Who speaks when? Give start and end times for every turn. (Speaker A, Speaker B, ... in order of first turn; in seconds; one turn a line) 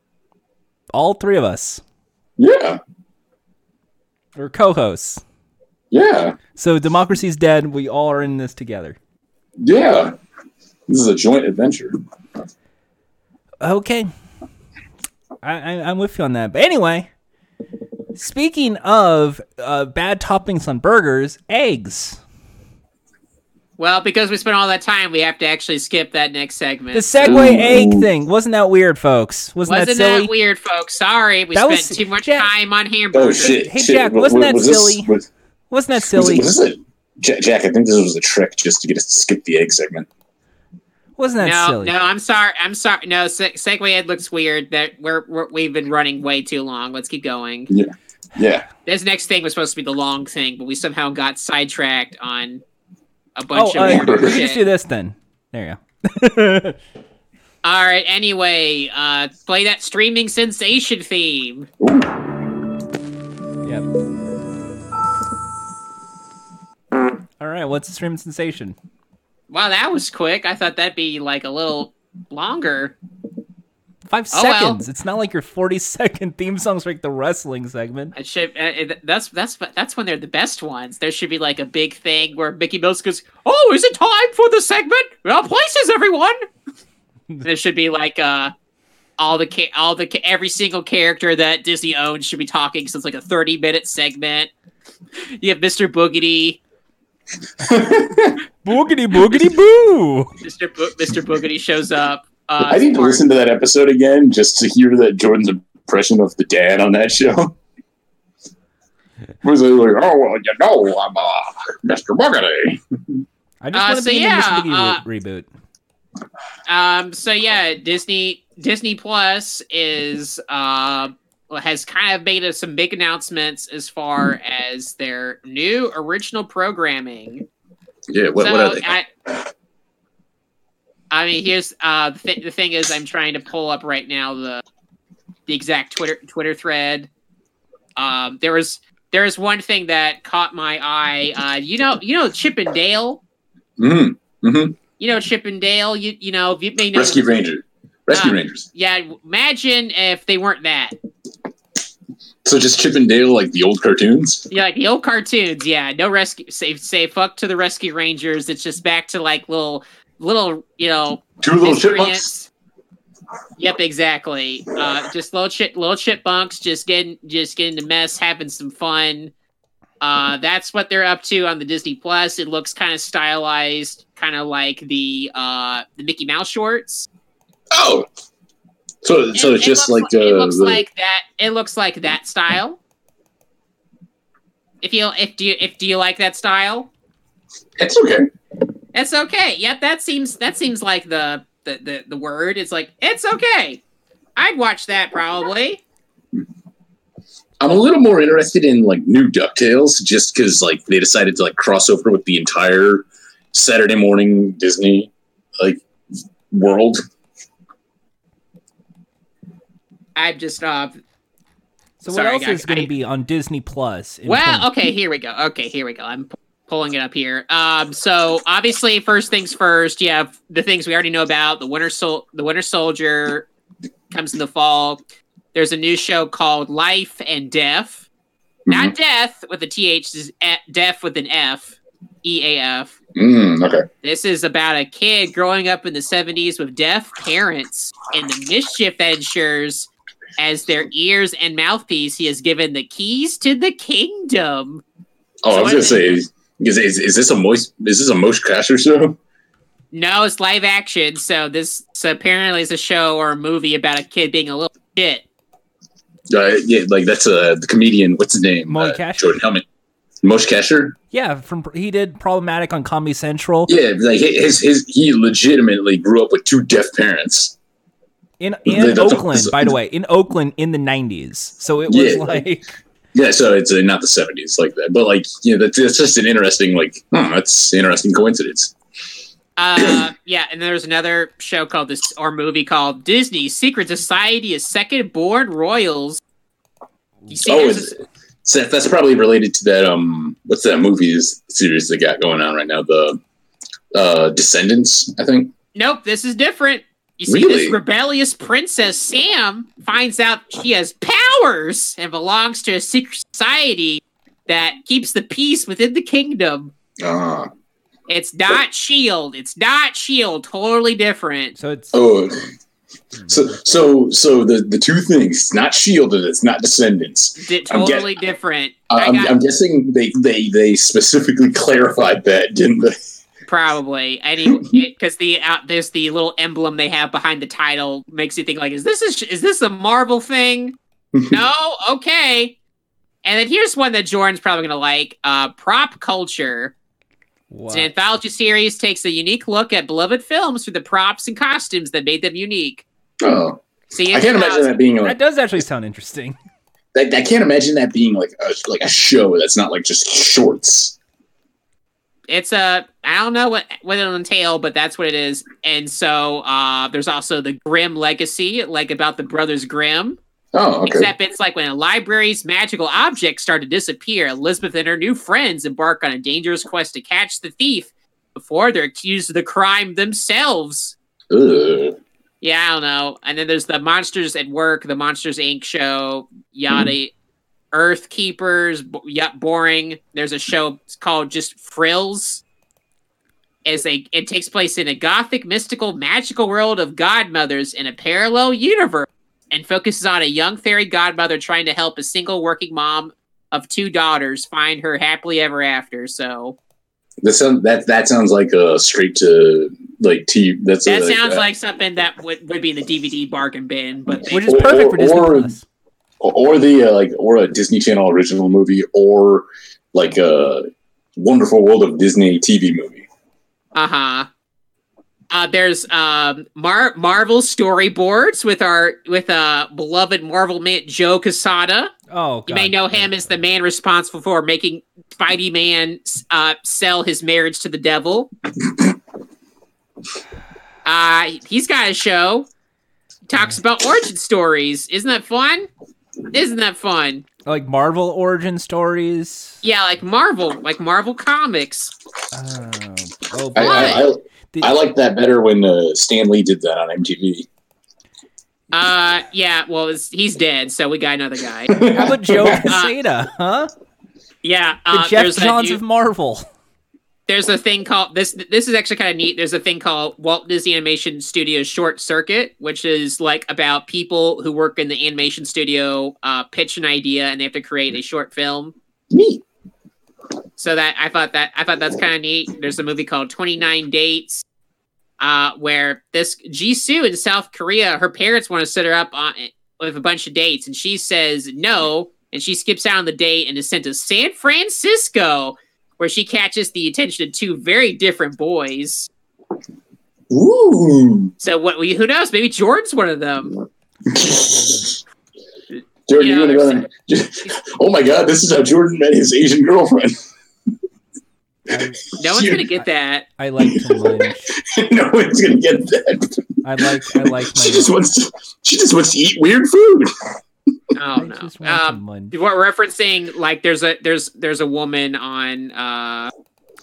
Speaker A: 0.9-1.8
Speaker B: 2.4-2.8
Speaker A: 4.3-5.2
Speaker B: 5.9-6.4
Speaker A: 6.5-9.0
Speaker B: 9.6-10.1
Speaker B: 10.9-12.0
Speaker A: 13.6-14.1
Speaker A: 15.4-17.1
Speaker A: 18.1-22.2
Speaker C: 23.8-27.1
Speaker A: 26.9-30.3
Speaker B: 27.2-28.1
Speaker C: 29.7-33.6
Speaker A: 31.5-32.5
Speaker B: 33.1-35.3
Speaker A: 33.4-35.1
Speaker A: 35.7-36.5
Speaker B: 36.0-40.1
Speaker A: 41.2-41.9
Speaker C: 41.4-47.7
Speaker B: 47.7-48.6
Speaker C: 48.9-52.6
Speaker C: 53.4-54.6
Speaker A: 53.5-56.8
Speaker B: 53.8-54.4
Speaker C: 57.6-61.7
Speaker B: 61.8-62.2
Speaker A: 67.4-68.8
Speaker C: 69.5-72.9
Speaker A: 74.1-78.1
Speaker C: 74.3-74.8
Speaker C: 78.1-86.4
Speaker C: 87.4-88.5
Speaker C: 89.2-94.5
Speaker C: 95.3-96.6
Speaker B: 97.6-98.4
Speaker A: 98.6-100.3
Speaker C: 100.4-103.2
Speaker B: 102.6-107.5
Speaker B: 109.4-112.8
Speaker A: 113.6-115.5
Speaker C: 113.7-115.0
Speaker C: 116.7-127.4
Speaker B: 128.1-128.9
Speaker C: 128.4-129.1
Speaker C: 131.1-134.6
Speaker C: 135.5-137.1
Speaker C: 137.9-143.2
Speaker B: 143.8-144.8
Speaker C: 145.0-147.3
Speaker B: 146.9-148.7
Speaker C: 148.1-150.9
Speaker B: 152.4-154.5
Speaker C: 154.5-162.5
Speaker B: 161.4-162.3
Speaker C: 163.6-169.3
Speaker C: 170.0-177.1
Speaker B: 177.7-178.1
Speaker B: 179.0-180.8
Speaker C: 179.3-182.8
Speaker C: 184.8-186.9
Speaker B: 187.8-188.3
Speaker C: 188.9-193.8
Speaker C: 194.3-195.8
Speaker B: 197.6-205.8
Speaker B: 206.5-207.0
Speaker C: 210.2-211.0
Speaker A: 212.0-214.7
Speaker C: 212.1-212.9
Speaker C: 214.3-223.5
Speaker C: 224.1-225.0
Speaker C: 225.5-228.1
Speaker B: 228.7-228.9
Speaker C: 228.7-232.9
Speaker B: 233.2-233.8
Speaker C: 234.0-244.8
Speaker B: 245.4-249.2
Speaker C: 245.5-246.2
Speaker C: 249.9-255.2
Speaker B: 256.3-259.6
Speaker A: 258.7-259.3
Speaker B: 260.2-261.0
Speaker A: 261.1-263.7
Speaker B: 263.7-267.6
Speaker A: 268.4-272.7
Speaker B: 268.6-269.7
Speaker B: 271.9-272.4
Speaker B: 273.1-278.7
Speaker C: 279.6-286.2
Speaker C: 287.3-287.9
Speaker B: 287.4-293.2
Speaker B: 293.9-295.5
Speaker C: 295.7-306.7
Speaker B: 297.3-297.8
Speaker B: 307.0-307.5
Speaker C: 308.1-311.5
Speaker A: 311.6-312.0
Speaker B: 311.9-312.5
Speaker B: 313.3-318.1
Speaker C: 317.4-319.3
Speaker B: 318.9-322.9
Speaker C: 323.4-332.6
Speaker C: 333.2-336.7
Speaker A: 337.5-337.9
Speaker C: 337.7-342.8
Speaker B: 343.2-345.2
Speaker C: 343.9-344.7
Speaker A: 345.0-346.4
Speaker B: 346.9-350.9
Speaker C: 352.3-360.2
Speaker B: 360.5-361.1
Speaker C: 360.8-370.9
Speaker B: 371.3-372.0
Speaker C: 372.4-377.1
Speaker C: 377.7-382.4
Speaker C: 383.6-396.6
Speaker B: 397.2-401.4
Speaker C: 400.8-404.4
Speaker B: 404.1-405.5
Speaker A: 404.3-405.6
Speaker B: 406.2-413.1
Speaker C: 413.7-414.3
Speaker C: 415.3-421.9
Speaker A: 422.1-423.1
Speaker C: 422.5-428.3
Speaker C: 430.8-432.5
Speaker C: 433.3-435.7
Speaker C: 436.3-437.2
Speaker A: 437.4-439.6
Speaker C: 439.6-441.9
Speaker A: 442.3-444.7
Speaker B: 443.5-447.5
Speaker C: 443.6-444.0
Speaker C: 448.7-451.7
Speaker B: 451.7-452.8
Speaker A: 451.9-453.7
Speaker C: 454.4-455.8
Speaker A: 454.9-456.4
Speaker C: 457.3-468.7
Speaker B: 469.1-469.4
Speaker C: 470.6-474.4
Speaker C: 475.2-489.1
Speaker B: 490.3-491.3
Speaker C: 491.4-493.6
Speaker B: 494.1-495.0
Speaker B: 496.1-500.1
Speaker C: 496.1-496.9
Speaker A: 501.7-502.1
Speaker C: 502.2-503.3
Speaker B: 502.2-502.7
Speaker A: 503.4-504.5
Speaker B: 503.6-510.1
Speaker A: 506.6-507.9
Speaker C: 510.9-516.3
Speaker A: 511.1-512.3